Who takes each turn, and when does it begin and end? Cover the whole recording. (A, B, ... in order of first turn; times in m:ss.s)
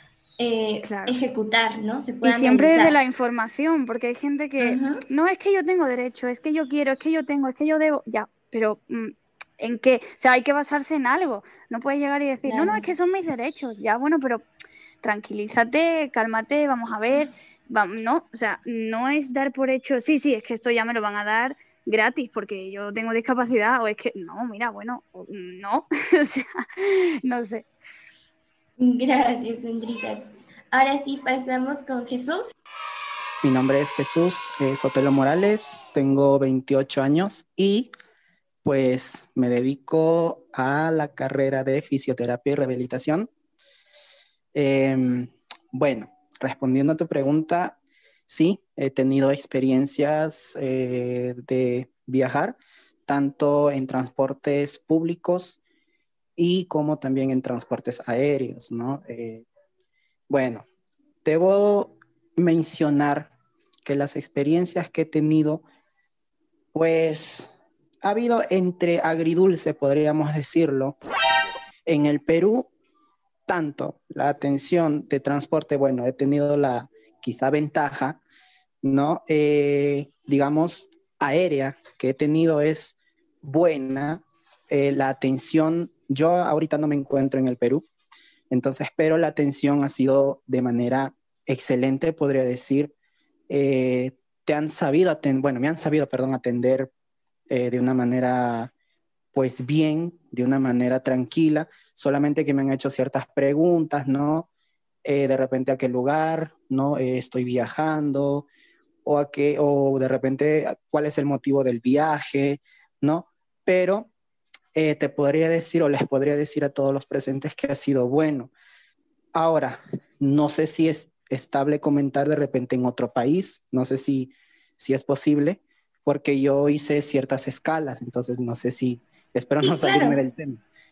0:00.4-0:03.0 A
0:00.8-0:01.2 B
0:02.2-0:14.4 B
0:04.6-0:05.0 A
0:12.4-0:12.8 A
0:15.0-0:27.6 B
0:28.8-0:32.5 A
0:33.4-0:37.9 C
0:38.6-0:43.3 C
0:44.5-0:47.8 C
0:48.3-0:55.6 C
0:56.4-0:59.4 C
1:00.3-1:00.6 C
1:01.2-1:03.3 C
1:03.8-1:05.6 C
1:06.7-1:07.5 C
1:08.0-1:11.0 C
1:11.9-1:12.7 C
1:13.5-1:18.2 C
1:18.8-1:27.8 C
1:28.5-1:32.9 C
1:33.5-1:36.9 C
1:37.5-1:38.7 C
1:39.3-1:44.5 C
1:45.0-1:48.5 C
1:49.0-1:54.1 C
1:54.7-1:58.5 C
1:59.3-2:10.6 C
2:09.6-2:10.2 A